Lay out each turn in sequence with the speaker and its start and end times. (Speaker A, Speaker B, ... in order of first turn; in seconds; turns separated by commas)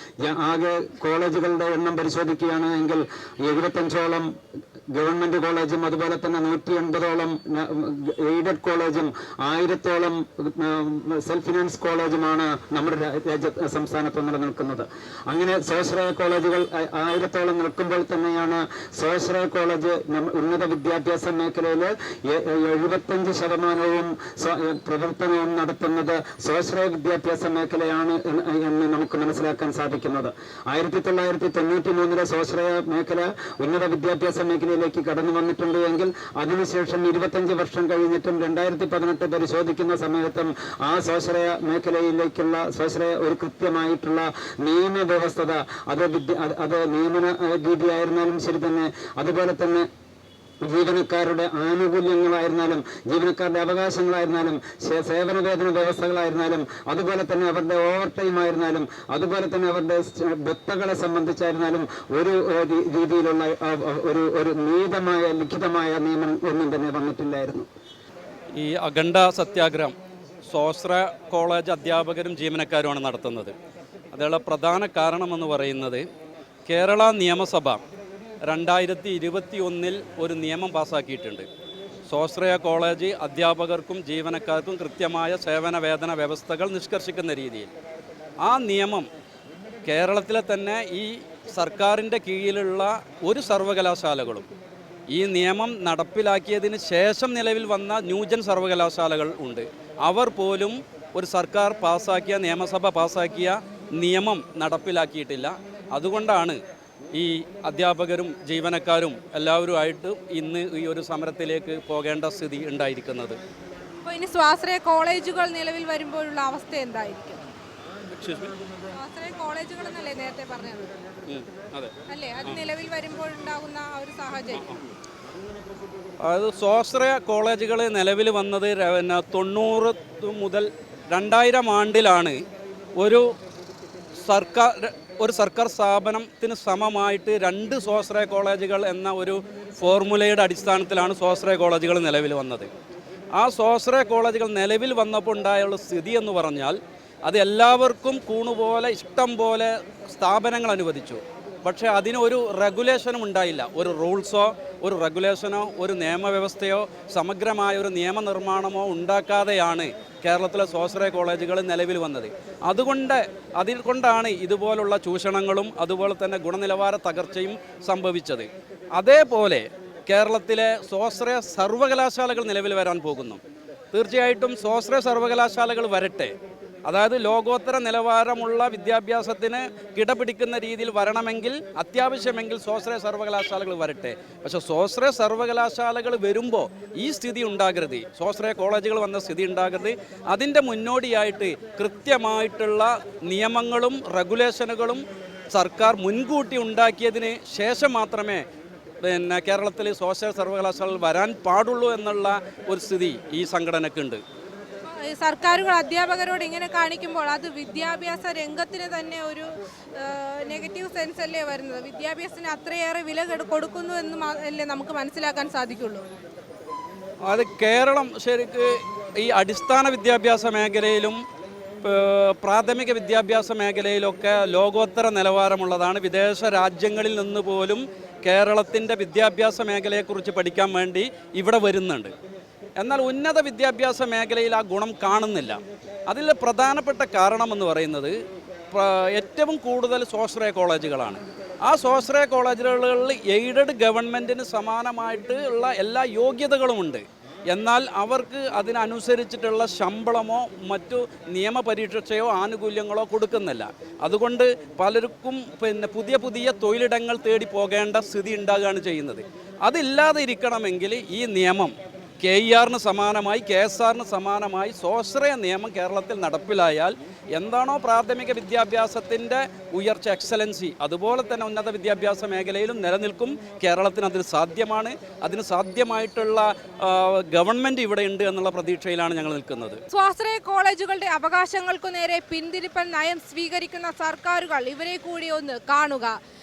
Speaker A: 0.2-4.3, Speaker A: 4.9-49.9, Speaker A: 50.6-67.7, Speaker B: 68.5-69.9, Speaker B: 70.5-73.5, Speaker B: 74.1-76.0, Speaker B: 76.7-77.8, Speaker B: 78.5-81.5, Speaker B: 82.1-87.7, Speaker B: 88.4-89.0, Speaker B: 89.8-94.5, Speaker B: 95.1-106.6, Speaker B: 107.1-113.4, Speaker C: 114.0-117.4, Speaker B: 118.1-118.5, Speaker C: 118.9-120.9, Speaker B: 121.3-122.6, Speaker C: 122.1-124.7, Speaker B: 126.2-132.4, Speaker B: 132.9-133.2, Speaker B: 134.2-142.7, Speaker B: 143.3-173.4, Speaker B: 173.9-176.3, Speaker B: 176.8-198.4, Speaker B: 199.0-204.2, Speaker C: 204.9-216.0, Speaker B: 217.3-221.2, Speaker B: 221.8-232.1, Speaker B: 232.8-238.1, Speaker B: 238.7-279.8, Speaker C: 279.9-286.1